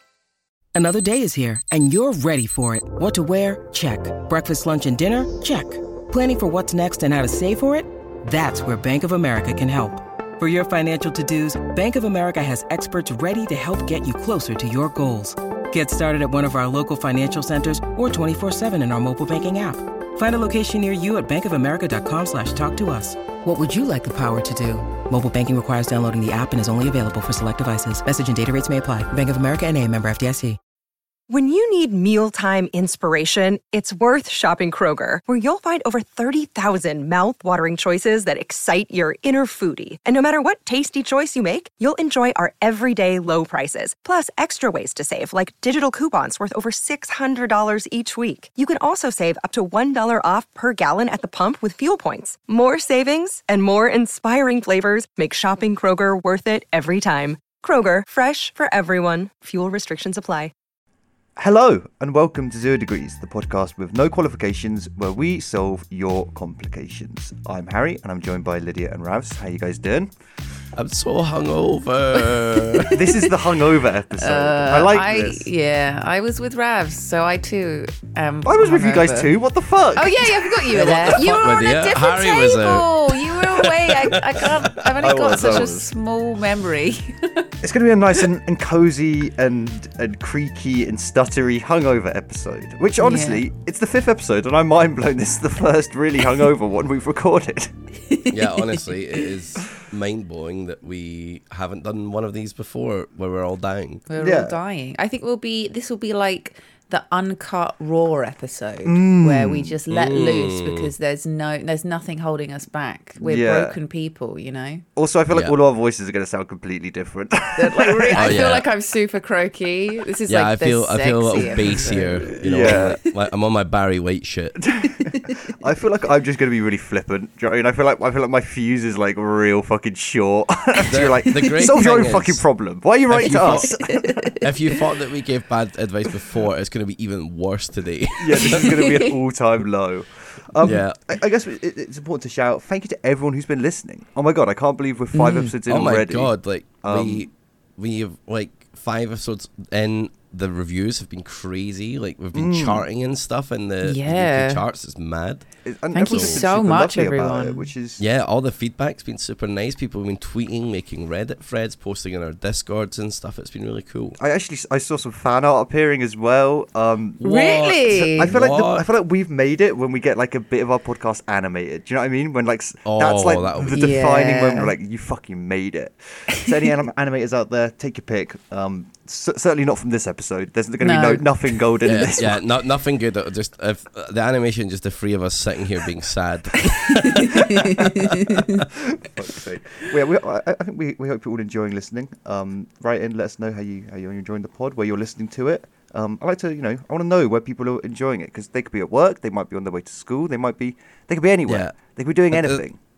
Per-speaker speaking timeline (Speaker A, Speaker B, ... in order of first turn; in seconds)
Speaker A: 0.8-30.6
Speaker B: 31.3-60.5
Speaker C: 61.4-70.1, 72.9-75.5, 78.4-80.6, 85.0-85.9, 87.6-97.7, 104.2-104.6, 108.8-109.8, 113.2-113.8, 115.0-118.5, 122.3-123.0, 124.6-134.3, 138.2-147.3, 152.3-152.8, 155.6-158.0, 164.2-167.2, 167.9-182.4, 188.8-202.8
Speaker D: 70.8-72.9, 80.7-85.7, 98.3-104.1, 109.9-110.9, 118.2-118.6, 120.3-124.6, 130.9-132.4, 133.1-133.7, 134.4-138.8, 140.6-141.0, 145.7-155.4, 156.1-156.3, 158.0-164.2, 167.2-168.8, 172.8-174.0, 181.8-187.6, 201.5-201.8, 202.3-202.6
Speaker E: 72.8-73.3, 74.2-79.3, 80.0-87.5, 93.0-93.5, 98.1-99.3, 104.1-114.8, 117.6-122.8, 124.9-125.5, 131.3-131.6, 133.5-134.8, 138.4-139.1, 145.1-145.5, 153.8-154.6, 155.9-157.7, 167.2-168.3, 173.7-174.8, 180.8-181.3, 186.8-188.6